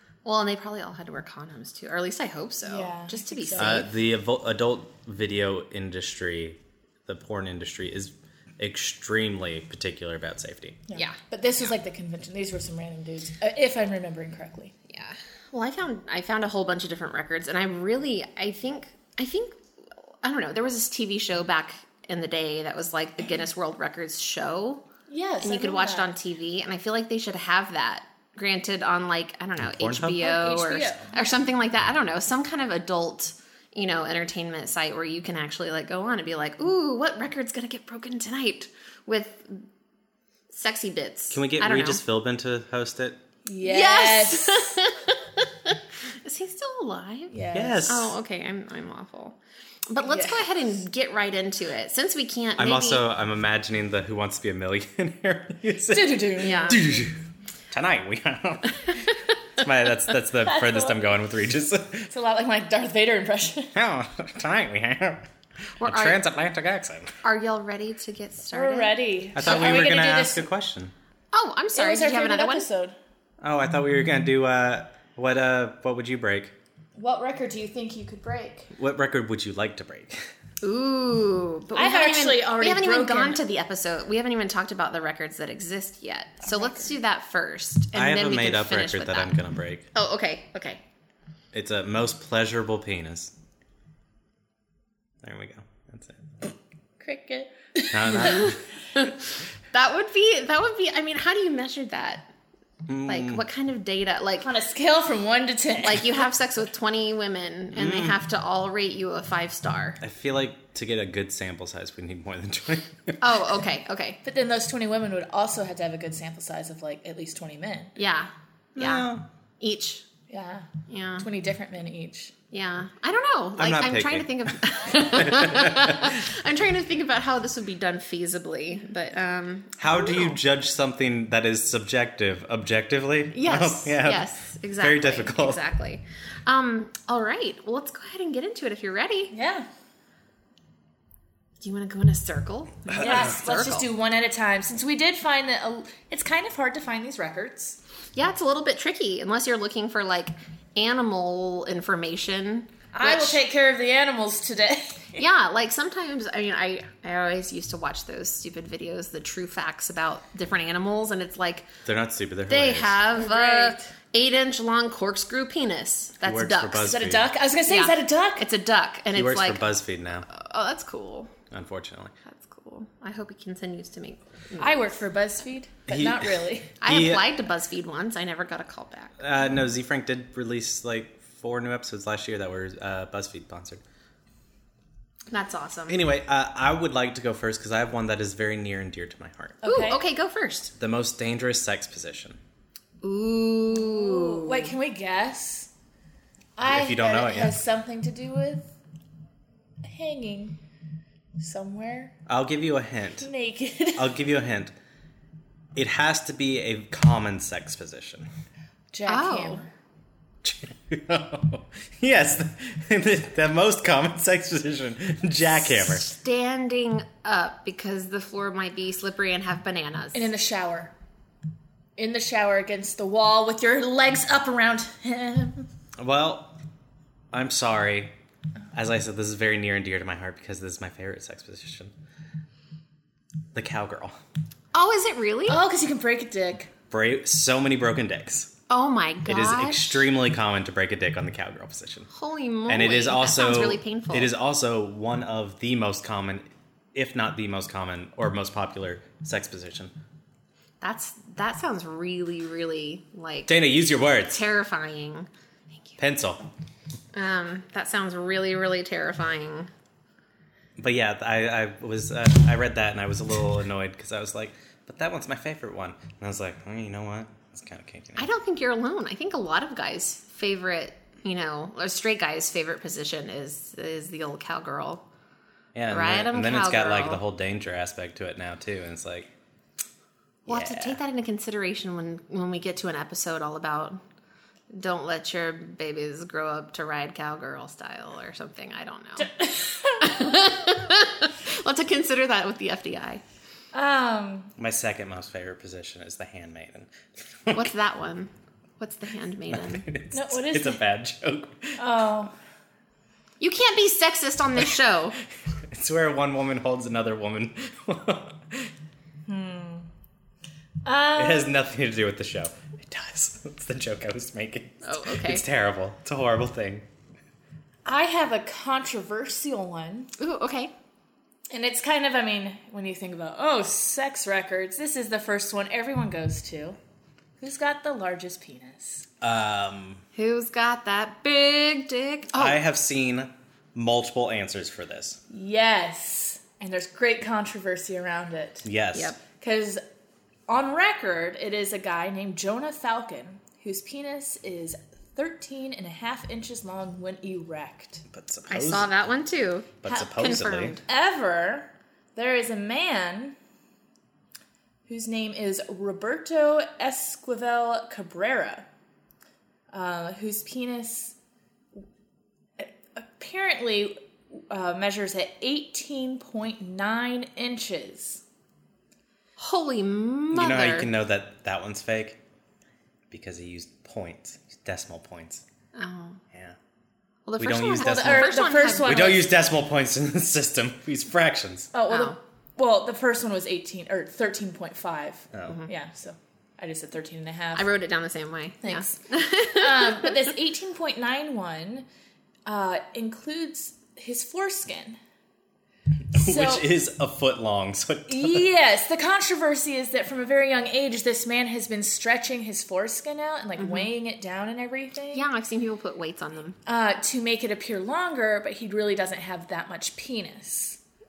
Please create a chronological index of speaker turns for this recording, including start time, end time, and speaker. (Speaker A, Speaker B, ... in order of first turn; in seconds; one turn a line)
Speaker A: 0.2-3.9
Speaker B: 2.6-3.9
Speaker C: 3.6-10.8
Speaker B: 10.9-14.7
Speaker A: 14.9-19.6
Speaker A: 20.2-24.8
Speaker B: 25.1-26.1
Speaker A: 25.4-39.7
Speaker C: 29.6-30.2
Speaker B: 30.2-31.1
Speaker A: 40.5-42.0
Speaker C: 41.3-43.2
Speaker B: 43.5-44.8
Speaker A: 43.6-49.4
Speaker B: 47.3-47.9
Speaker C: 47.5-48.1
Speaker A: 49.9-53.0
Speaker B: 50.0-50.5
Speaker C: 52.6-59.0
Speaker B: 55.9-57.1
Speaker A: 56.4-56.8
Speaker A: 58.9-59.4
Speaker C: 59.6-62.1
Speaker B: 60.4-61.1
Speaker B: 62.1-63.7
Speaker C: 63.8-65.3
Speaker A: 65.8-66.2
Speaker C: 65.8-67.2
Speaker A: 67.2-69.0
Speaker B: 68.5-70.5
Speaker C: 69.3-70.9
Speaker A: 71.3-72.7
Speaker B: 71.8-73.0
Speaker C: 73.4-76.5
Speaker B: 77.0-78.7
Speaker C: 78.8-80.3
Speaker A: 80.6-89.4
Speaker B: 81.8-83.4
Speaker B: 86.4-87.0
Speaker C: 87.9-89.9
Speaker A: 89.9-90.8
Speaker C: 91.5-93.3
Speaker C: 95.2-96.3
Speaker B: 97.0-98.5
Speaker C: 97.9-98.6
Speaker A: 98.2-102.3
Speaker C: 102.9-103.5
Speaker A: 103.1-104.5
Speaker B: 104.4-106.3
Speaker A: 105.8-110.0
Speaker C: 107.7-108.2
Speaker C: 110.0-113.4
Speaker A: 113.2-114.2
Speaker B: 114.2-117.9
Speaker A: 118.0-119.1
Speaker C: 118.8-119.3
Speaker A: 119.6-120.0
Speaker B: 120.3-120.7
Speaker A: 120.9-121.3
Speaker B: 121.2-122.3
Speaker A: 122.5-130.4
Speaker C: 123.6-126.2
Speaker C: 129.8-135.6
Speaker A: 133.3-139.3
Speaker B: 139.3-139.7
Speaker A: 141.6-143.9
Speaker C: 142.9-143.4
Speaker B: 143.0-147.8
Speaker A: 148.2-153.4
Speaker B: 152.9-155.2
Speaker A: 155.2-161.7
Speaker C: 161.8-163.0
Speaker A: 162.5-166.9
Speaker B: 163.1-163.9
Speaker C: 166.2-167.3
Speaker B: 166.8-168.5
Speaker A: 167.7-169.7
Speaker C: 169.1-170.3
Speaker A: 170.3-171.3
Speaker C: 171.5-172.1
Speaker A: 172.2-174.8
Speaker B: 174.6-176.7
Speaker C: 175.9-177.3
Speaker A: 176.8-179.2
Speaker C: 179.2-183.8
Speaker A: 185.3-186.0
Speaker C: 185.9-189.6
Speaker B: 189.6-190.0
Speaker A: 189.6-190.7
Speaker C: 190.8-192.4
Speaker A: 193.0-194.7
Speaker B: 193.7-195.7
Speaker B: 196.6-198.7
Speaker C: 196.7-197.6
Speaker B: 199.8-200.6
Speaker B: 201.4-202.1
Speaker C: 202.3-203.3
Speaker B: 203.2-204.1
Speaker C: 204.0-204.7
Speaker C: 205.8-208.3
Speaker B: 208.9-209.7
Speaker A: 209.1-209.6
Speaker C: 210.4-216.1
Speaker A: 215.9-220.3
Speaker B: 220.1-220.9
Speaker B: 222.0-225.7
Speaker C: 226.0-226.5
Speaker C: 227.3-228.2
Speaker C: 228.7-231.9
Speaker C: 233.5-234.2
Speaker A: 234.7-235.6
Speaker B: 235.5-236.7
Speaker C: 236.9-238.5
Speaker A: 238.7-240.1
Speaker C: 239.3-242.1
Speaker A: 242.1-244.3
Speaker C: 242.7-249.9
Speaker A: 250.8-253.6
Speaker C: 253.5-254.4
Speaker A: 254.2-256.0
Speaker C: 256.0-256.5
Speaker A: 257.1-259.7
Speaker C: 260.8-268.3
Speaker A: 268.2-275.0
Speaker C: 275.8-279.3
Speaker A: 275.9-277.2
Speaker C: 280.5-281.0
Speaker A: 280.5-284.0
Speaker A: 284.7-289.3
Speaker B: 289.2-290.3
Speaker A: 290.0-293.2
Speaker B: 293.7-294.5
Speaker C: 294.6-296.9
Speaker C: 297.4-297.7
Speaker A: 297.5-299.9
Speaker C: 299.5-301.8
Speaker B: 300.1-300.8
Speaker B: 301.8-302.3
Speaker A: 303.4-305.2
Speaker C: 305.7-308.7
Speaker B: 309.3-309.9
Speaker B: 310.9-311.6
Speaker C: 311.1-316.9
Speaker A: 314.8-315.4
Speaker B: 317.9-320.1
Speaker A: 320.2-320.7
Speaker B: 321.5-326.8
Speaker B: 327.4-329.1
Speaker C: 329.2-330.0
Speaker A: 330.1-332.6
Speaker C: 332.3-335.2
Speaker B: 335.3-338.7
Speaker C: 338.6-339.1
Speaker A: 338.9-339.2
Speaker B: 339.3-339.8
Speaker B: 340.5-348.1
Speaker C: 348.1-348.9
Speaker A: 348.5-350.8
Speaker C: 349.8-350.8
Speaker B: 350.8-353.4
Speaker B: 354.9-358.7
Speaker B: 359.7-361.2
Speaker B: 362.6-368.2
Speaker A: 369.4-370.9
Speaker C: 370.3-372.2
Speaker C: 373.1-375.4
Speaker A: 375.8-376.2
Speaker C: 376.3-376.6
Speaker A: 377.3-379.2
Speaker C: 377.4-381.7
Speaker B: 377.8-379.3
Speaker B: 381.7-387.7
Speaker A: 381.9-382.2
Speaker C: 385.3-385.6
Speaker A: 387.6-390.3
Speaker B: 388.6-391.9
Speaker B: 392.5-395.0
Speaker B: 396.1-396.7
Speaker C: 396.1-398.5
Speaker B: 398.1-405.3
Speaker A: 403.6-403.9
Speaker A: 405.1-406.6
Speaker B: 406.7-410.8